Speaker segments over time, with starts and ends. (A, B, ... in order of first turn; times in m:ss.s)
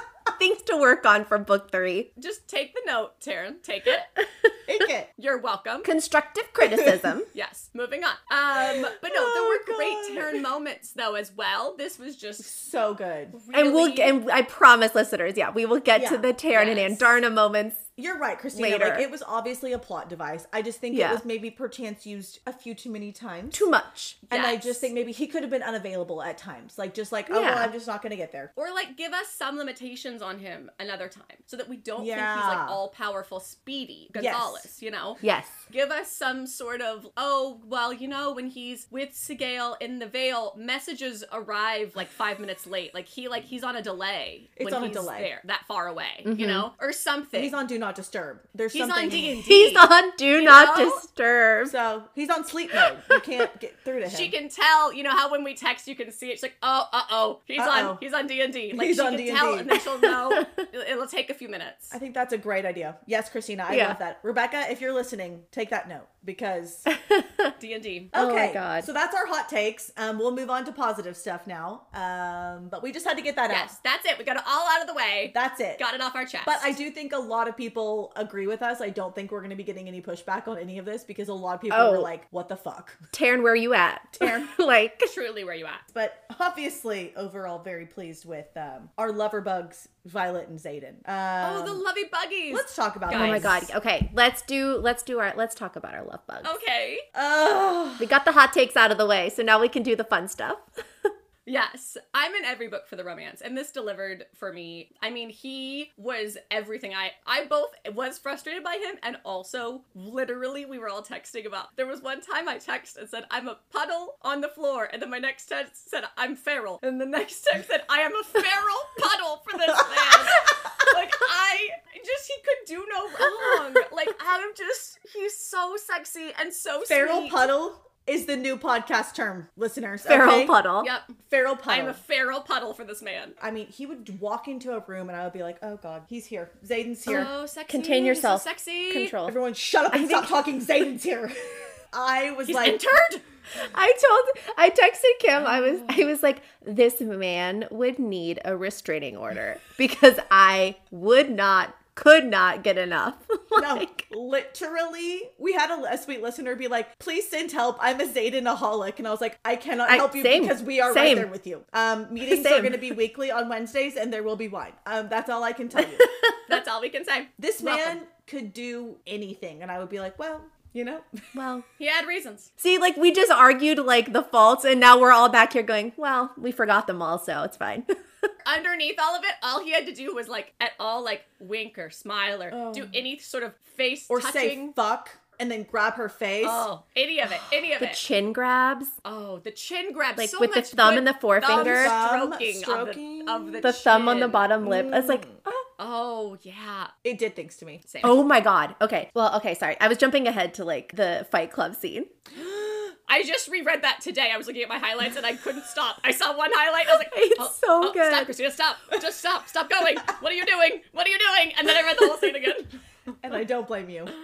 0:00.4-0:02.1 A
0:02.2-0:04.1 B
0:04.2-0:04.5 A
0:04.6-0:05.1 C
0:05.2-0:05.9 B
0:05.8-0:07.3 A
0:06.6-0:07.1 C
0:07.3-0:12.5 B
0:08.6-0:10.4 C
0:12.4-0:13.4 C
0:13.3-0:14.2 B
0:13.5-0:17.8 A
0:16.0-0:16.3 C
0:16.5-0:17.1 B
0:18.0-0:23.7 C
0:18.5-0:19.1 A
0:20.9-0:21.2 A
0:23.5-0:24.2 A
0:24.3-0:28.5 C
0:24.3-0:24.9 B
0:27.3-0:27.7 A
0:28.6-0:47.6 B
0:32.0-0:32.8 C
0:34.2-0:34.7 C
0:35.2-0:35.6 A
0:44.6-0:45.3 C
0:46.2-0:46.7 A
0:47.3-0:49.4 C
0:48.7-0:51.0 B
0:49.4-0:51.8 A
0:51.6-0:54.4 C
0:52.7-0:53.5 A
0:54.0-1:02.0 B
0:57.6-0:58.0 C
0:58.7-0:59.8 C
1:00.0-1:00.6 A
1:01.9-1:06.9 C
1:03.7-1:04.0 A
1:06.9-1:07.5 A
1:07.6-1:08.1 B
1:08.1-1:13.7 C
1:08.1-1:08.9 A
1:13.5-1:16.8 B
1:15.3-1:15.8 C
1:16.4-1:23.0 C
1:21.7-1:22.1 A
1:23.1-1:25.1 A
1:24.2-1:24.5 C
1:25.0-1:25.8 B
1:25.9-1:31.8 C
1:31.4-1:33.6 B
1:32.5-1:33.7 C
1:33.1-1:36.6 A
1:36.4-1:37.0 B
1:37.1-1:38.1 C
1:38.0-1:41.1 A
1:41.5-2:07.5 B
2:06.9-2:10.6 C
2:10.0-2:10.9 A
2:10.8-2:11.2 B
2:11.2-2:12.0 C
2:11.7-2:13.4 B
2:13.4-2:17.3 C
2:17.1-2:19.2 B
2:17.1-2:19.4 A
2:19.2-2:22.8 C
2:19.9-2:20.4 A
2:22.5-2:23.2 B
2:23.5-2:34.1 A
2:25.4-2:26.0 B
2:33.6-2:46.1 C
2:39.9-2:41.3 A
2:42.2-2:43.0 A
2:45.8-2:46.6 A
2:46.5-2:48.0 B
2:47.4-2:51.3 C
2:51.3-2:51.7 A
2:51.8-2:52.5 B
2:52.6-2:58.3 A
2:58.4-3:04.7 B
3:02.5-3:03.0 C
3:04.1-3:06.7 C
3:06.4-3:08.0 B
3:07.8-3:08.9 A
3:09.0-3:14.5 B
3:10.2-3:12.0 A
3:11.4-3:13.7 C
3:13.6-3:15.6 A
3:14.6-3:15.4 C
3:15.8-3:16.9 B
3:17.0-3:17.8 C
3:17.9-3:18.2 B
3:18.0-3:22.1 A
3:22.4-3:32.8 B
3:26.9-3:28.3 A
3:33.2-3:34.1 C